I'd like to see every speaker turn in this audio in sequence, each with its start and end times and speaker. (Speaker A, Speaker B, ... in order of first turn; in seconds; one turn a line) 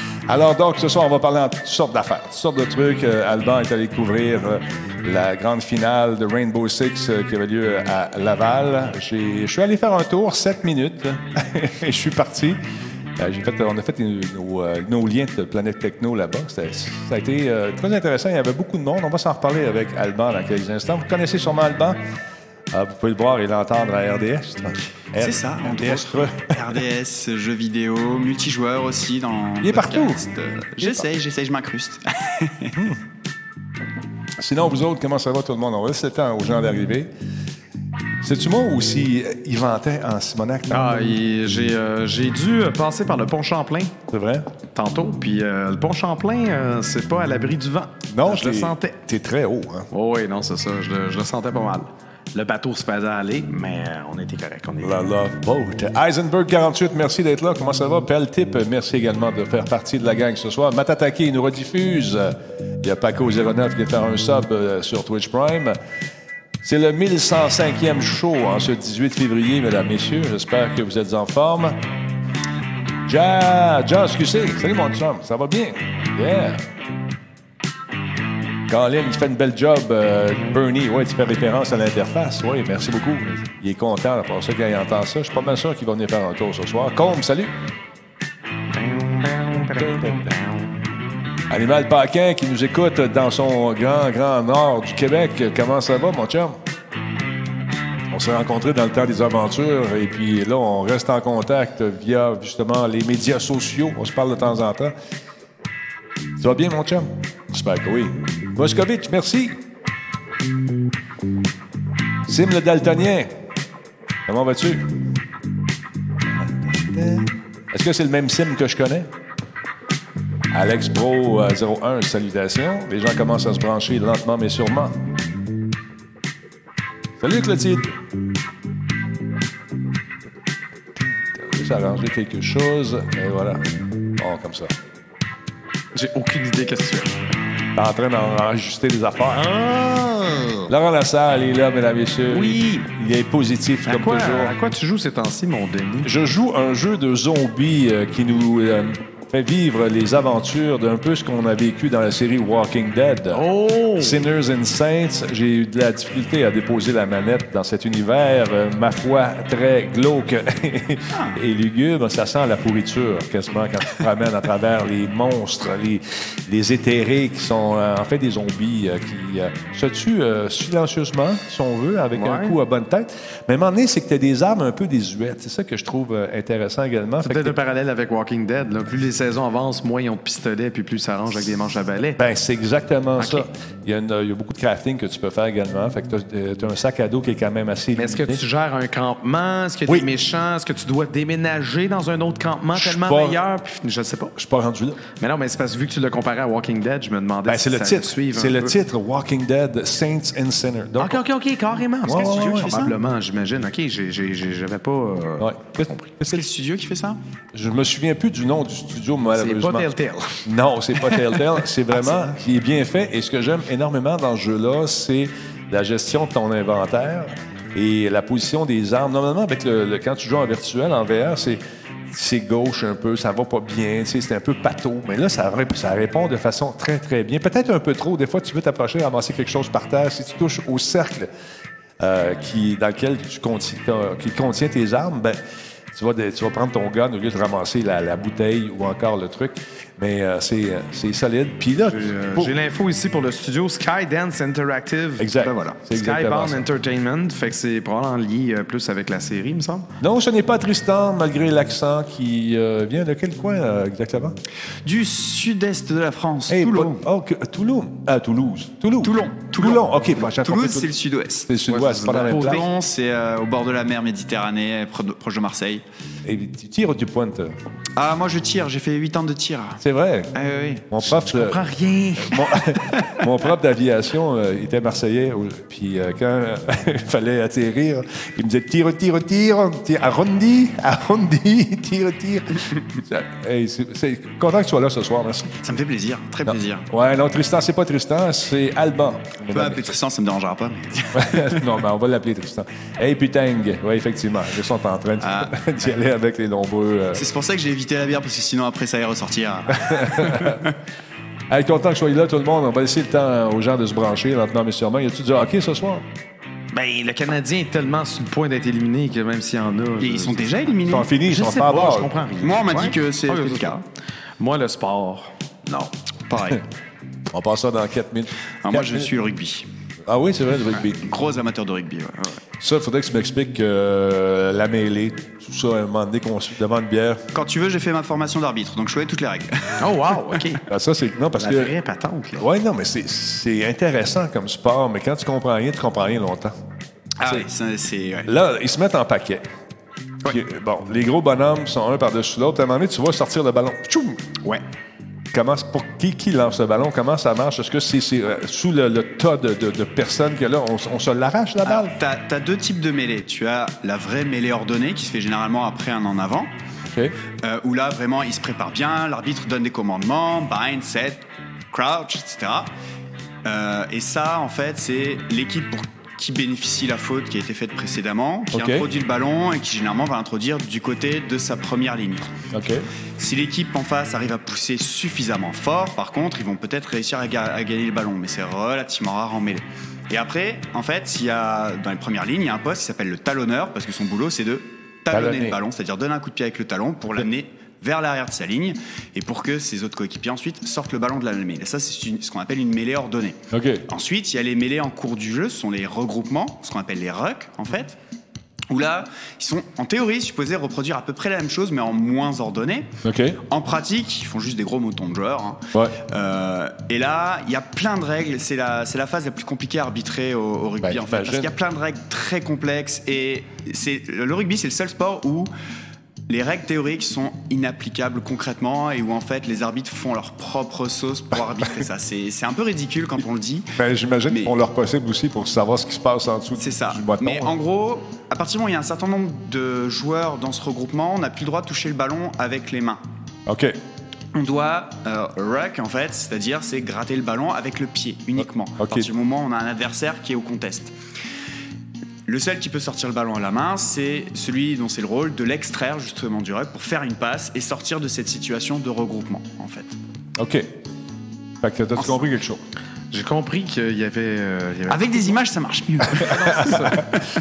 Speaker A: 0.3-12.6
Speaker A: 13.2-22.0
Speaker A: 22.7-26.8
Speaker B: 25.2-32.8
Speaker A: 29.6-30.2
Speaker A: 32.7-33.0
Speaker A: 34.4-37.1
Speaker A: 38.2-41.1
Speaker C: 40.7-43.9
Speaker A: 44.1-44.5
Speaker C: 44.7-49.0
Speaker A: 48.1-49.9
Speaker C: 49.9-55.1
Speaker A: 54.8-65.8
Speaker A: 66.6-71.8
Speaker A: 73.1-76.6
Speaker A: 78.7-87.5
Speaker C: 88.8-90.7
Speaker A: 89.7-90.3
Speaker A: 91.5-96.6
Speaker A: 98.1-104.9
Speaker A: 106.4-109.6
Speaker A: 112.3-113.3
Speaker A: 114.3-114.9
Speaker A: 116.3-119.1
Speaker A: 120.5-125.0
Speaker A: 127.2-128.0
Speaker A: 131.0-133.6
Speaker A: 134.2-134.7
Speaker C: 135.9-137.2
Speaker A: 137.8-139.5
Speaker C: 139.3-140.7
Speaker A: 140.7-144.6
Speaker C: 142.3-142.9
Speaker C: 143.8-146.1
Speaker A: 146.0-153.5
Speaker C: 153.3-154.2
Speaker A: 154.0-177.6
Speaker C: 172.1-172.6
Speaker C: 177.2-182.2
Speaker A: 182.2-188.4
Speaker C: 183.2-183.5
Speaker C: 187.9-194.3
Speaker A: 192.7-193.4
Speaker A: 194.4-195.0
Speaker C: 195.2-198.8
Speaker A: 197.5-201.2
Speaker C: 201.0-206.1
Speaker A: 202.1-202.7
Speaker B: 202.1-203.0
Speaker A: 205.4-206.4
Speaker B: 206.2-207.2
Speaker A: 207.5-209.9
Speaker C: 209.3-210.5
Speaker A: 210.4-231.3
Speaker C: 212.0-212.3
Speaker A: 232.0-235.4
Speaker A: 235.9-242.6
Speaker C: 241.8-245.3
Speaker A: 245.2-246.7
Speaker B: 245.4-245.8
Speaker C: 245.9-249.9
Speaker A: 250.0-254.3
Speaker B: 254.8-257.0
Speaker A: 256.5-260.9
Speaker B: 259.0-265.8
Speaker A: 261.5-262.7
Speaker C: 261.7-262.6
Speaker A: 266.2-267.6
Speaker B: 268.0-269.8
Speaker A: 269.8-270.3
Speaker B: 270.3-270.9
Speaker A: 270.9-271.6
Speaker C: 271.1-272.4
Speaker A: 272.2-285.6
Speaker B: 285.6-286.9
Speaker A: 286.5-289.9
Speaker B: 289.5-291.6
Speaker A: 291.1-297.2
Speaker B: 295.2-295.5
Speaker B: 297.1-300.7
Speaker A: 299.7-300.6
Speaker A: 301.5-306.0
Speaker C: 306.7-310.7
Speaker B: 310.0-311.1
Speaker A: 310.9-312.1
Speaker C: 311.3-313.8
Speaker B: 312.4-313.8
Speaker C: 314.4-315.9
Speaker B: 316.3-316.6
Speaker A: 317.3-319.1
Speaker B: 318.6-319.7
Speaker A: 320.1-321.0
Speaker B: 321.0-322.4
Speaker A: 322.6-327.2
Speaker B: 327.3-330.4
Speaker C: 329.8-330.6
Speaker A: 330.7-331.7
Speaker C: 331.4-332.5
Speaker A: 332.4-336.5
Speaker B: 337.2-338.3
Speaker A: 338.3-339.4
Speaker A: 340.3-344.4
Speaker A: 345.3-352.0
Speaker B: 351.6-356.5
Speaker A: 356.9-357.2
Speaker B: 357.4-362.7
Speaker B: 363.4-372.3
Speaker A: 368.5-368.9
Speaker A: 372.5-372.9
Speaker B: 373.2-398.0
Speaker A: 385.1-385.6
Speaker A: 393.5-393.9
Speaker B: 398.7-402.9
Speaker A: 403.0-403.4
Speaker B: 403.4-415.5
Speaker A: 405.7-406.0
Speaker A: 410.8-411.5
Speaker B: 416.3-423.8
Speaker A: 423.8-427.6
Speaker B: 424.3-424.6
Speaker B: 426.6-433.0
Speaker A: 433.5-433.8
Speaker B: 434.3-440.9
Speaker A: 438.8-439.1
Speaker B: 442.3-450.0
Speaker A: 450.4-450.7
Speaker A: 451.6-452.6
Speaker C: 453.1-455.4
Speaker B: 454.9-457.3
Speaker C: 456.1-457.1
Speaker A: 456.5-457.0